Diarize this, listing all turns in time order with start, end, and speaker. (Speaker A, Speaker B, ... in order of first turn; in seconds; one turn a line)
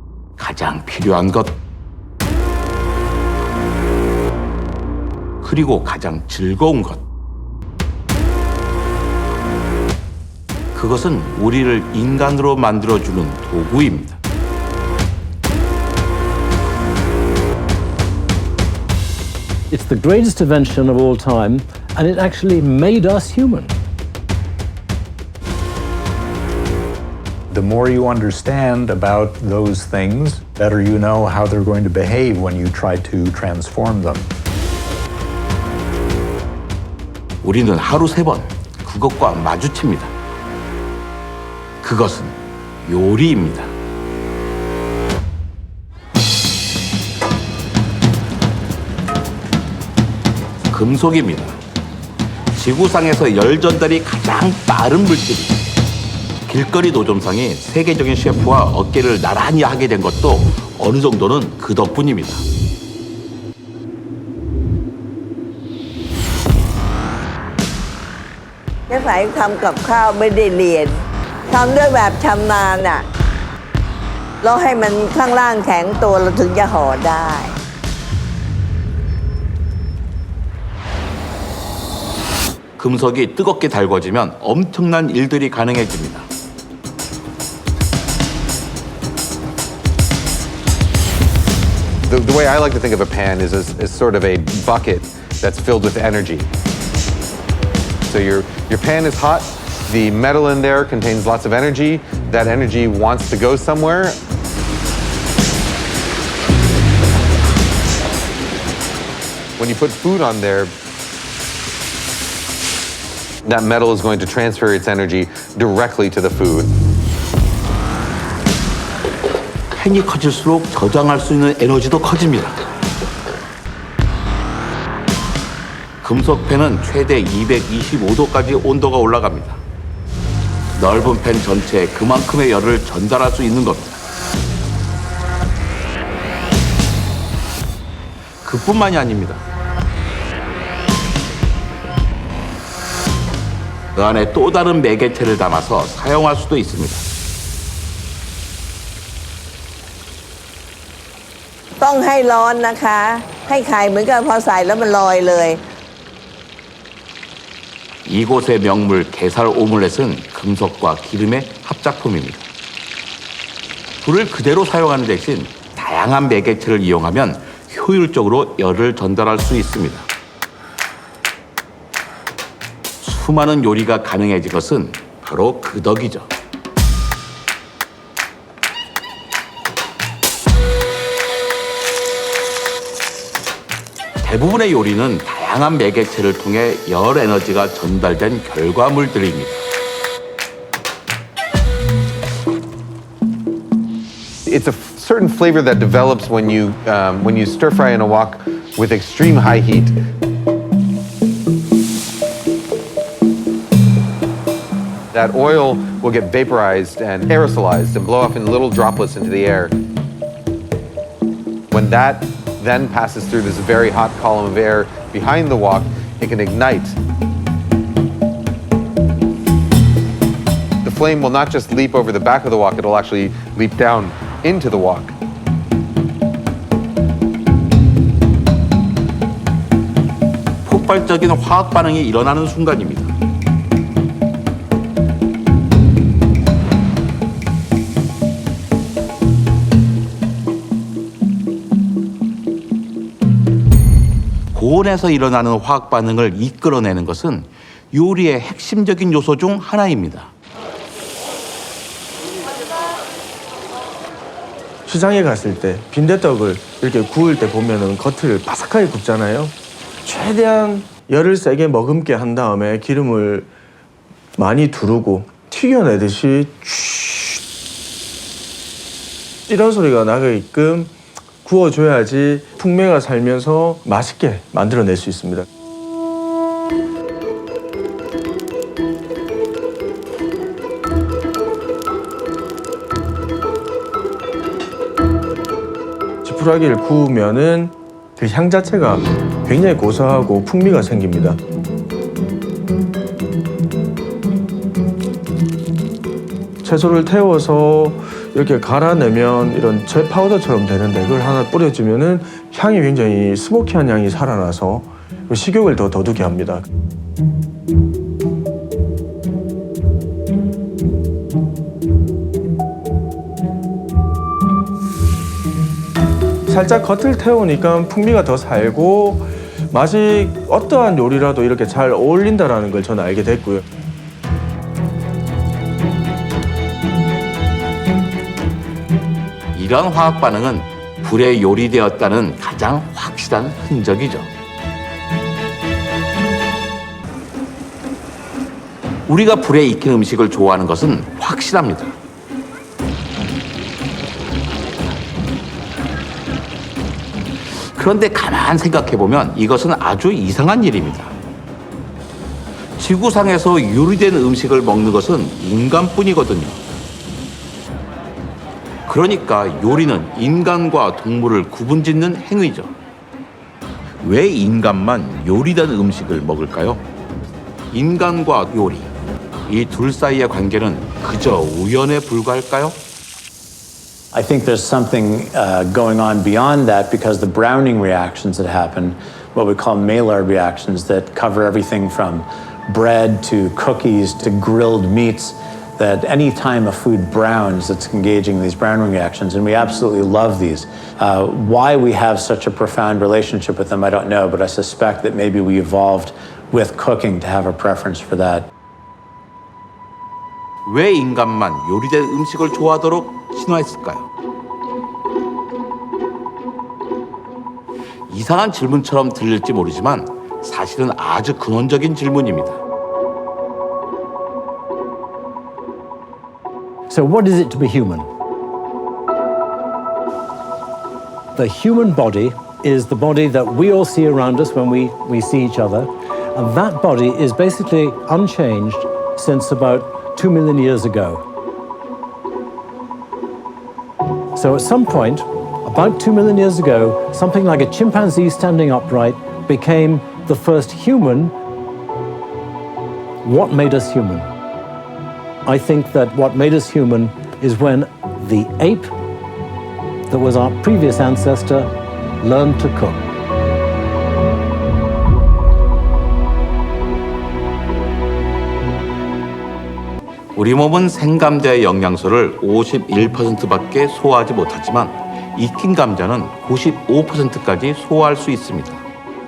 Speaker A: 0.4-1.6
Speaker A: 5.4-7.0
Speaker A: 10.7-14.2
Speaker B: 19.7-23.8
Speaker C: 27.5-34.3
Speaker A: 37.4-40.1
Speaker A: 41.8-43.7
Speaker A: 50.7-51.6
Speaker A: 52.5-55.6
Speaker A: 56.5-62.4
Speaker D: 68.9-73.1
Speaker D: 74.4-77.6
Speaker A: 82.8-86.3
Speaker E: 92.0-96.5
Speaker E: 98.1-104.2
Speaker E: 109.6-110.7
Speaker E: 113.4-116.7
Speaker A: 119.7-122.6
Speaker A: 126.0-129.6
Speaker A: 130.7-134.0
Speaker A: 138.4-139.4
Speaker A: 143.9-147.1
Speaker D: 151.8-155.6
Speaker A: 158.1-162.4
Speaker A: 164.0-170.1
Speaker A: 173.0-176.3
Speaker A: 184.2-189.6
Speaker E: 194.5-199.9
Speaker E: 205.1-209.8
Speaker E: 211.7-217.0
Speaker E: 220.8-225.1
Speaker A: 230.7-233.1
Speaker A: 244.5-250.3
Speaker F: 254.9-259.5
Speaker F: 260.0-263.5
Speaker F: 264.4-267.4
Speaker F: 269.5-270.9
Speaker F: 271.4-275.4
Speaker F: 286.2-291.4
Speaker F: 296.6-306.6
Speaker F: 316.5-323.6
Speaker A: 329.5-334.3
Speaker A: 339.1-341.9
Speaker A: 347.7-351.1
Speaker A: 352.8-356.6
Speaker A: 358.9-362.7
Speaker A: 364.0-366.8
Speaker A: 367.7-368.9
Speaker A: 369.5-372.8
Speaker G: 374.1-398.5
Speaker A: 400.6-404.1
Speaker A: 408.1-412.6
Speaker B: 416.9-418.1
Speaker B: 421.3-431.2
Speaker B: 434.3-441.3
Speaker B: 443.2-444.3
Speaker B: 445.4-448.9
Speaker B: 450.1-453.0
Speaker A: 460.3-468.8